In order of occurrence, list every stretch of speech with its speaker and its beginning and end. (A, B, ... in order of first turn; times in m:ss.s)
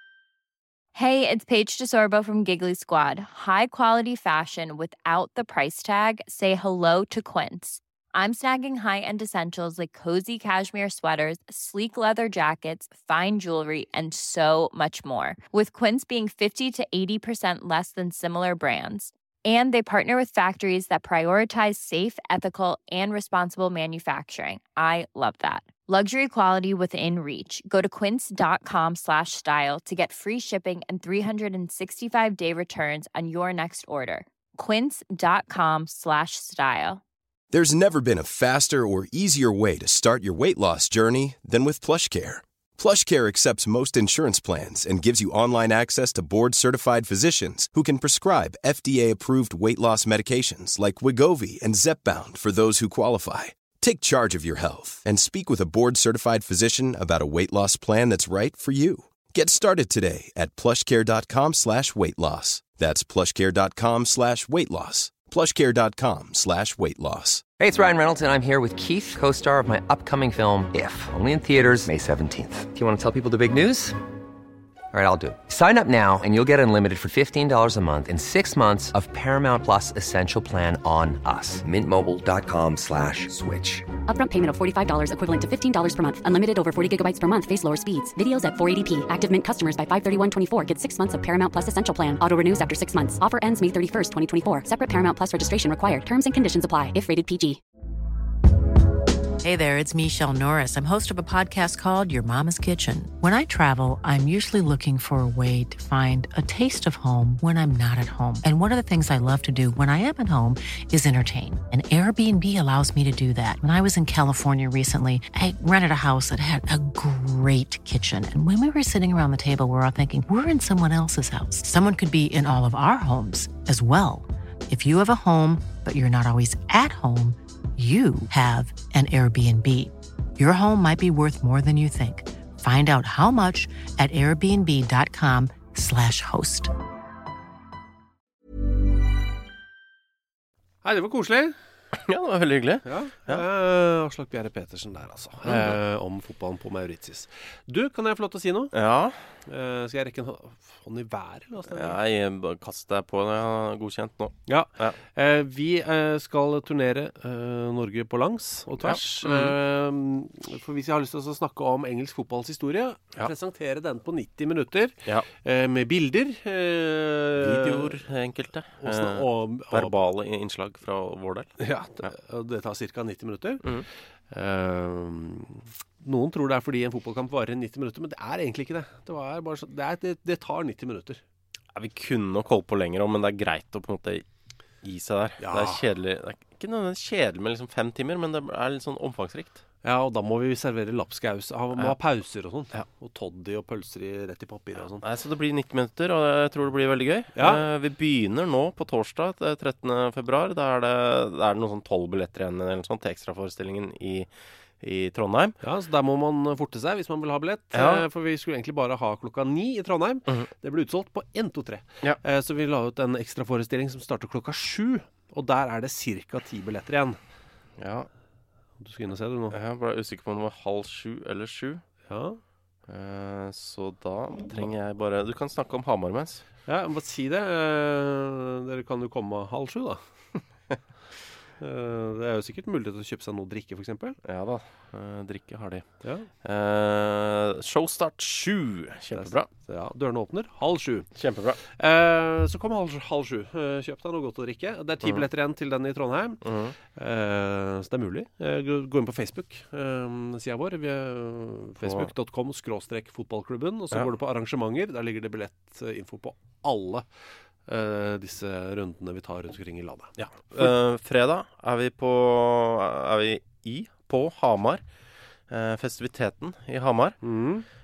0:00.9-0:37.0 A
0:37.5-1:07.4 B
1:07.6-1:14.0 C
1:14.9-1:23.8 C
1:24.1-1:37.6 D
1:39.4-2:16.7 E
2:20.8-2:21.5 F
2:21.9-2:23.4 G
2:22.8-2:28.7 F
2:25.4-2:25.8 G
2:28.7-2:29.2 G
2:29.5-2:32.0 F
2:31.7-2:35.0 G
2:34.5-2:48.0 F
2:38.8-2:39.6 G
2:47.4-2:51.5 G
2:48.8-2:50.0 F
2:51.6-3:01.2 F
3:01.7-3:04.2 G
3:04.8-3:09.6 G
3:05.4-3:05.8 F
3:09.8-3:15.0 F
3:15.0-3:24.3 G
3:17.3-3:17.6 F
3:24.8-3:25.6 G
3:25.6-3:37.2 F
3:27.7-3:28.1 G
3:37.8-3:38.1 G
3:38.8-3:39.6 F
3:39.5-3:41.8 G
3:42.1-3:42.4 F
3:42.9-3:46.4 G
3:46.7-3:50.0 F
3:51.6-3:54.2 F
3:54.2-3:55.9 G
3:56.0-3:56.3 F
3:56.4-3:59.5 G
3:59.1-4:06.4 F
4:01.2-4:01.6 G
4:06.4-4:06.7 G
4:06.9-4:17.0 F
4:11.8-4:12.1 G
4:17.7-4:20.7 F
4:20.5-4:24.8 G
4:25.5-4:27.2 G
4:27.2-4:27.6 F